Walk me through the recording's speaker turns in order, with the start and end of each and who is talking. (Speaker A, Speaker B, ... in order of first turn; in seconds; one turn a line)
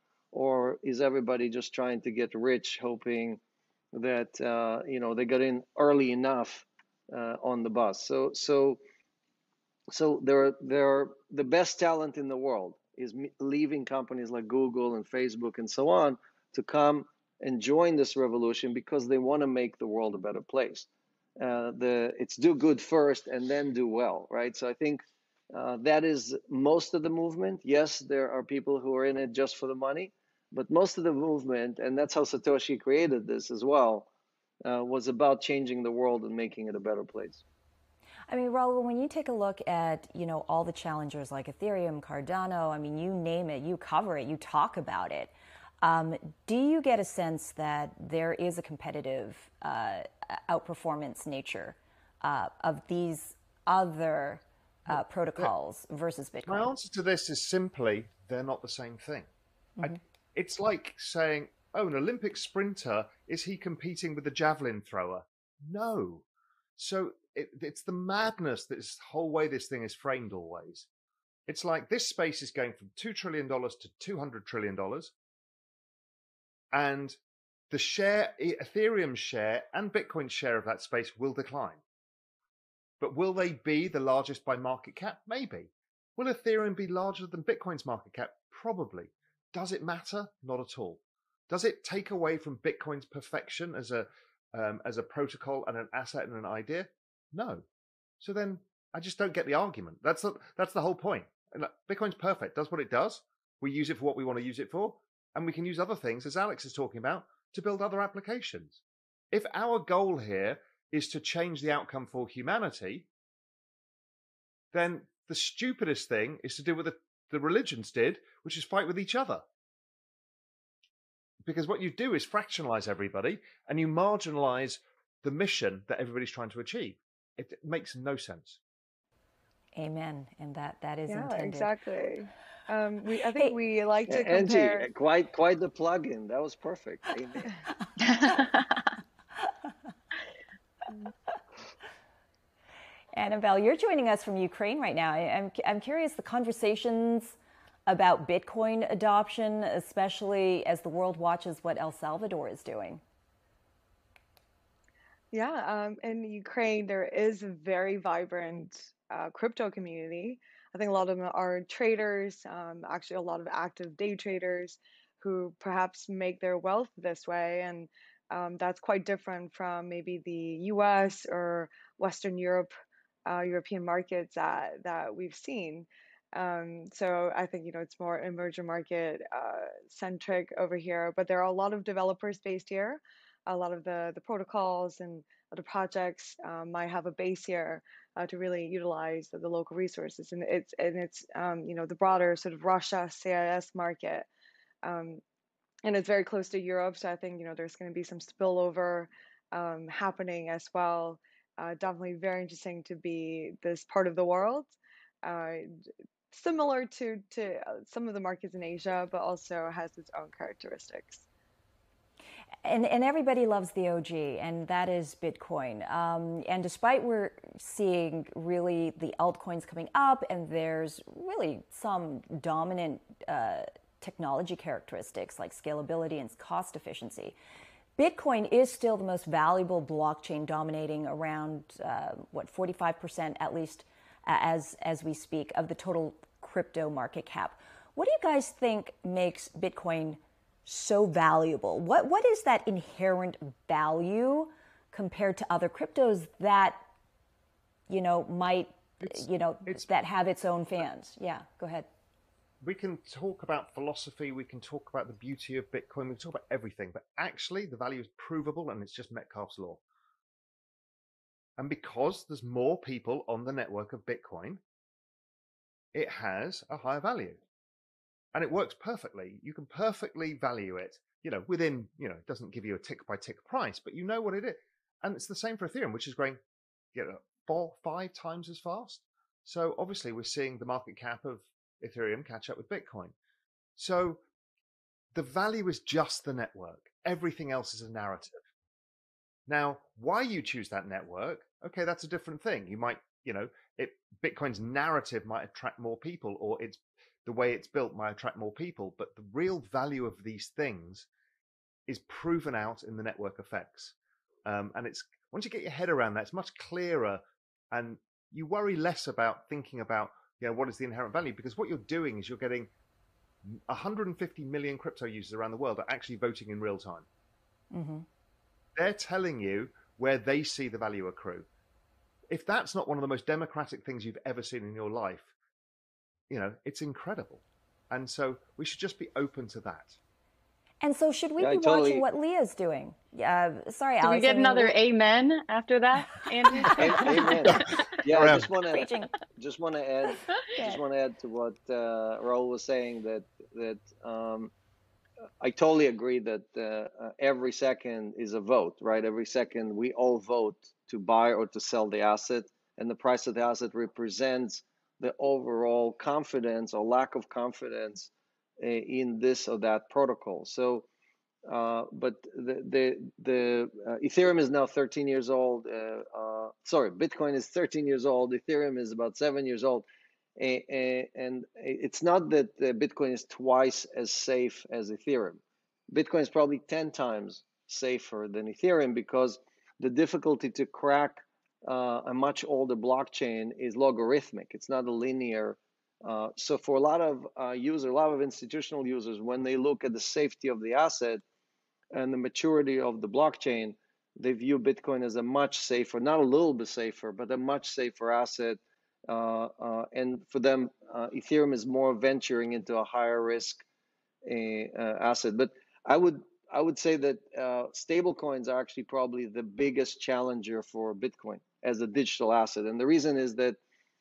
Speaker A: 0.3-3.4
Speaker A: 3.9-8.8
Speaker A: 9.9-20.9
Speaker A: 21.4-34.1
Speaker A: 34.6-37.4
Speaker B: 38.3-56.7
Speaker C: 56.5-59.3
Speaker C: 59.8-66.2
Speaker C: 66.8-70.8
Speaker C: 71.5-75.1
Speaker C: 76.7-77.2
Speaker C: 77.7-81.8
Speaker C: 83.0-97.6
Speaker C: 98.2-108.8
Speaker C: 109.3-113.1
Speaker C: 114.7-119.4
Speaker C: 121.4-128.6
Speaker B: 129.8-131.7
Speaker D: 131.1-134.9
Speaker A: 134.1-137.5
Speaker E: 138.1-138.4
Speaker B: 143.1-147.3
Speaker B: 147.9-153.0
Speaker D: 155.3-172.7
Speaker D: 173.2-194.3
Speaker D: 194.8-195.2
Speaker D: 195.8-205.7
Speaker D: 206.3-211.2
Speaker B: 212.6-227.3
Speaker B: 228.0-246.8
Speaker B: 247.9-251.9
Speaker C: 252.6-259.8
Speaker C: 261.6-264.6
Speaker C: 265.9-267.4
Speaker C: 268.3-276.4
Speaker C: 276.9-283.1
Speaker C: 283.8-284.2
Speaker C: 285.1-288.4
Speaker C: 289.5-301.1
Speaker C: 301.9-303.9
Speaker C: 304.4-312.7
Speaker C: 313.4-317.1
Speaker B: 317.7-318.1
Speaker C: 318.8-321.5
Speaker C: 322.3-325.3
Speaker C: 326.3-330.0
Speaker B: 330.8-334.7
Speaker A: 331.4-332.0
Speaker E: 334.0-337.6
Speaker A: 336.8-344.5
Speaker B: 337.0-337.3
Speaker C: 337.5-338.5
Speaker B: 338.7-339.1
Speaker A: 345.4-360.9
Speaker A: 361.5-369.9
Speaker A: 370.4-375.4
Speaker A: 375.9-391.2
Speaker A: 391.9-403.6
Speaker A: 404.2-413.6